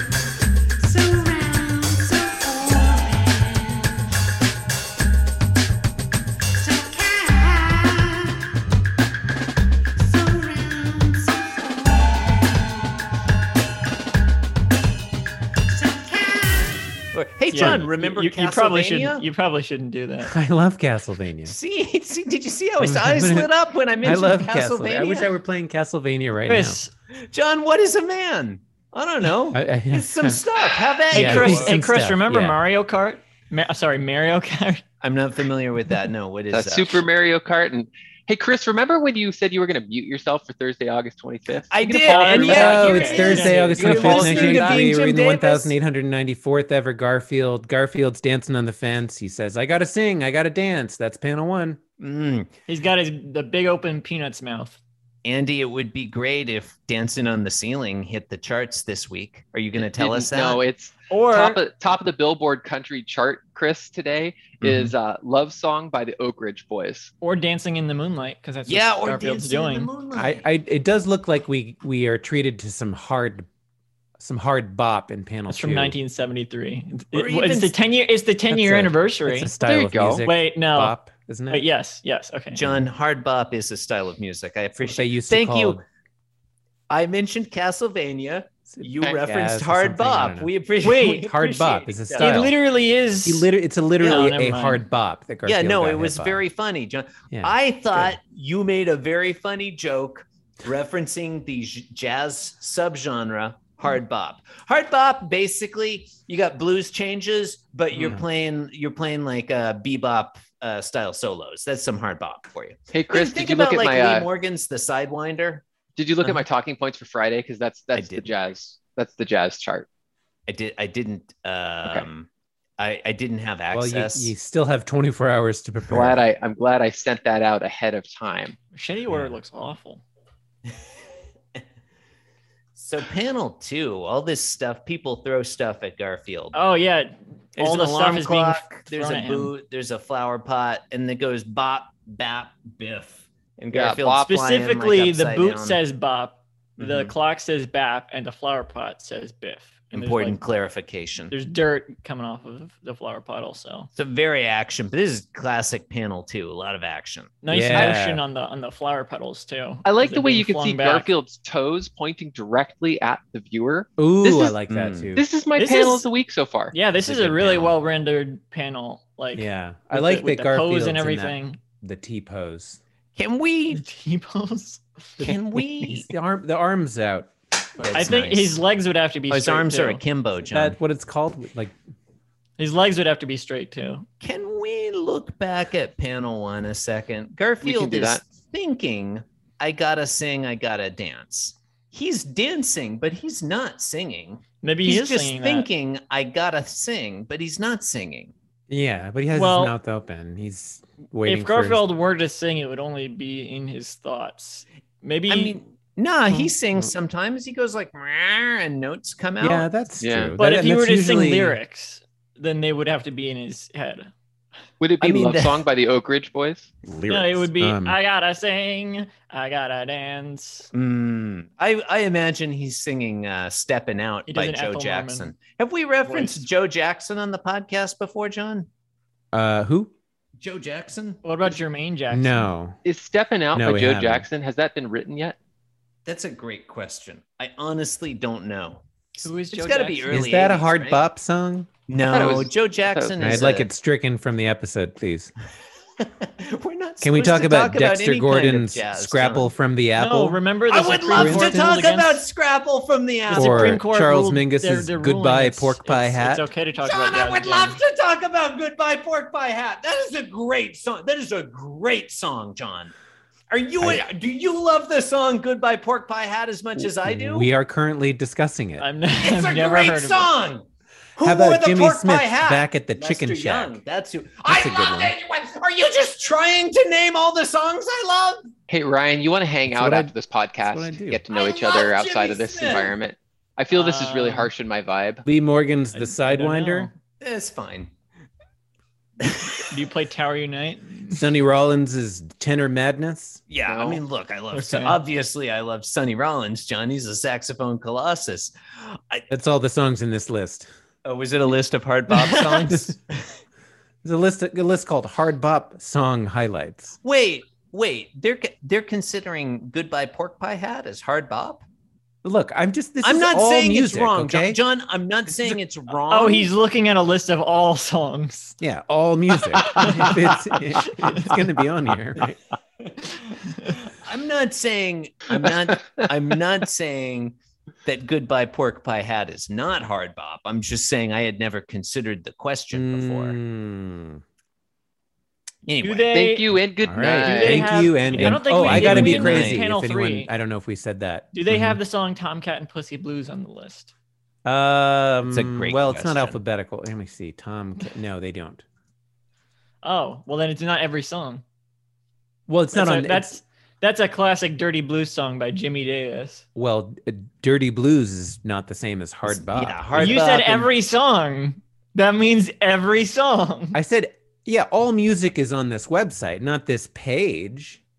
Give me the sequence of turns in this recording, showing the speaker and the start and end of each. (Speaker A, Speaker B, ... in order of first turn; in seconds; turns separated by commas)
Speaker A: 0.8-3.9, Speaker A: 6.6-8.2, Speaker A: 10.0-11.7, Speaker A: 15.8-19.2, Speaker B: 17.5-20.3, Speaker C: 20.2-21.5, Speaker A: 21.5-25.3, Speaker C: 22.8-23.5, Speaker C: 24.0-26.8, Speaker B: 26.4-26.9, Speaker A: 27.2-31.8, Speaker C: 29.5-30.4, Speaker C: 31.1-32.6, Speaker B: 31.1-34.8, Speaker A: 35.0-37.0, Speaker D: 36.5-43.4, Speaker A: 41.7-45.7, Speaker B: 41.8-44.3, Speaker C: 42.3-51.8, Speaker D: 44.0-44.8, Speaker A: 52.0-52.5, Speaker B: 52.7-54.8, Speaker A: 55.2-60.6, Speaker D: 59.8-67.1, Speaker B: 61.1-61.6, Speaker A: 64.6-64.9, Speaker B: 67.2-69.9, Speaker A: 68.7-70.5, Speaker C: 70.1-73.5, Speaker C: 74.2-76.0, Speaker B: 75.5-79.5, Speaker A: 77.1-77.7, Speaker C: 78.5-81.7, Speaker D: 79.6-80.2, Speaker B: 80.2-81.0, Speaker B: 81.5-82.6, Speaker A: 82.5-85.8, Speaker C: 84.8-85.8, Speaker A: 86.9-92.5, Speaker C: 88.7-90.5, Speaker B: 90.8-93.5, Speaker C: 91.0-92.5, Speaker C: 93.2-96.4, Speaker A: 94.0-94.3, Speaker B: 94.0-94.8, Speaker A: 95.5-115.7, Speaker C: 97.3-98.1, Speaker C: 107.9-108.2, Speaker D: 112.9-114.3, Speaker D: 115.9-119.8, Speaker A: 117.9-118.3, Speaker A: 120.5-122.3, Speaker A: 122.8-124.3, Speaker C: 123.7-126.2, Speaker D: 125.9-128.6, Speaker B: 128.7-130.0, Speaker C: 129.1-129.3, Speaker A: 132.7-136.6, Speaker B: 136.5-139.5, Speaker A: 137.6-145.8, Speaker D: 143.7-144.3, Speaker B: 144.1-150.4, Speaker A: 146.8-147.1, Speaker A: 149.9-151.3, Speaker B: 151.3-153.9, Speaker A: 153.9-157.3, Speaker B: 157.4-161.1, Speaker C: 157.5-158.2, Speaker D: 159.8-164.6, Speaker C: 164.0-165.2, Speaker A: 164.7-165.1, Speaker D: 165.1-166.8, Speaker B: 165.6-166.1, Speaker B: 166.7-171.6, Speaker C: 167.0-167.6, Speaker A: 167.3-167.7, Speaker C: 169.3-172.8, Speaker A: 173.2-173.8, Speaker B: 173.7-175.2, Speaker C: 175.2-177.3, Speaker A: 175.2-176.1, Speaker A: 177.8-178.5, Speaker B: 177.9-180.0, Speaker A: 179.3-180.8, Speaker C: 180.5-181.8, Speaker B: 182.6-184.1, Speaker A: 184.2-198.3, Speaker D: 187.6-188.2, Speaker B: 194.6-195.7, Speaker C: 198.7-201.8, Speaker B: 199.3-199.8, Speaker B: 201.2-205.6, Speaker A: 205.3-209.7, Speaker C: 206.3-206.9, Speaker C: 209.4-211.6, Speaker D: 210.0-210.3, Speaker B: 210.4-214.1, Speaker D: 214.8-216.7, Speaker A: 215.0-215.6, Speaker C: 216.8-218.0, Speaker B: 217.1-220.7, Speaker A: 220.7-228.7, Speaker B: 224.3-225.3, Speaker B: 226.1-226.5, Speaker C: 229.3-229.9, Speaker A: 230.4-231.2, Speaker B: 231.2-232.5, Speaker C: 232.1-232.8, Speaker D: 232.8-235.3, Speaker C: 233.5-234.3, Speaker A: 236.0-241.1, Speaker B: 239.2-240.3, Speaker C: 240.1-241.7, Speaker A: 241.9-243.7, Speaker D: 242.1-243.3, Speaker C: 243.2-245.3, Speaker A: 246.2-249.5, Speaker C: 247.0-250.4, Speaker B: 249.9-252.2, Speaker A: 250.7-253.8, Speaker C: 251.1-251.9, Speaker B: 253.3-257.8, Speaker C: 253.3-256.5, Speaker A: 256.8-262.9, Speaker A: 263.5-267.5, Speaker C: 267.0-268.9, Speaker B: 268.8-270.3, Speaker A: 269.2-270.6, Speaker A: 271.2-278.4, Speaker C: 271.2-273.8, Speaker C: 274.4-275.1, Speaker D: 278.7-285.2, Speaker C: 279.7-281.2, Speaker A: 281.3-282.9, Speaker B: 283.7-284.5, Speaker C: 285.2-286.9, Speaker B: 285.9-286.9, Speaker A: 287.2-287.9, Speaker B: 289.6-291.2, Speaker C: 291.1-293.4, Speaker A: 293.5-298.5, Speaker D: 293.6-294.0, Speaker B: 294.5-295.0, Speaker C: 299.3-300.7, Speaker A: 301.0-303.0, Speaker C: 302.7-302.9, Speaker C: 304.0-306.9, Speaker A: 307.0-311.6, Speaker C: 312.2-314.6, Speaker A: 313.0-316.5, Speaker C: 315.3-315.6, Speaker B: 316.1-318.6, Speaker C: 318.6-322.4, Speaker B: 319.6-320.1, Speaker B: 320.8-321.2, Speaker B: 323.2-323.7, Speaker A: 324.0-333.4, Speaker C: 332.7-334.2, Speaker A: 335.6-336.1, Speaker B: 335.8-336.6, Speaker D: 336.1-337.9, Speaker C: 336.8-341.8, Speaker B: 337.1-340.3, Speaker A: 338.1-339.6, Speaker B: 341.3-343.9, Speaker C: 344.4-348.6, Speaker A: 345.3-346.4, Speaker B: 349.8-351.4, Speaker C: 352.5-353.4, Speaker B: 352.7-356.4, Speaker C: 356.5-360.5, Speaker A: 359.3-360.7, Speaker B: 359.9-363.8, Speaker C: 363.7-367.8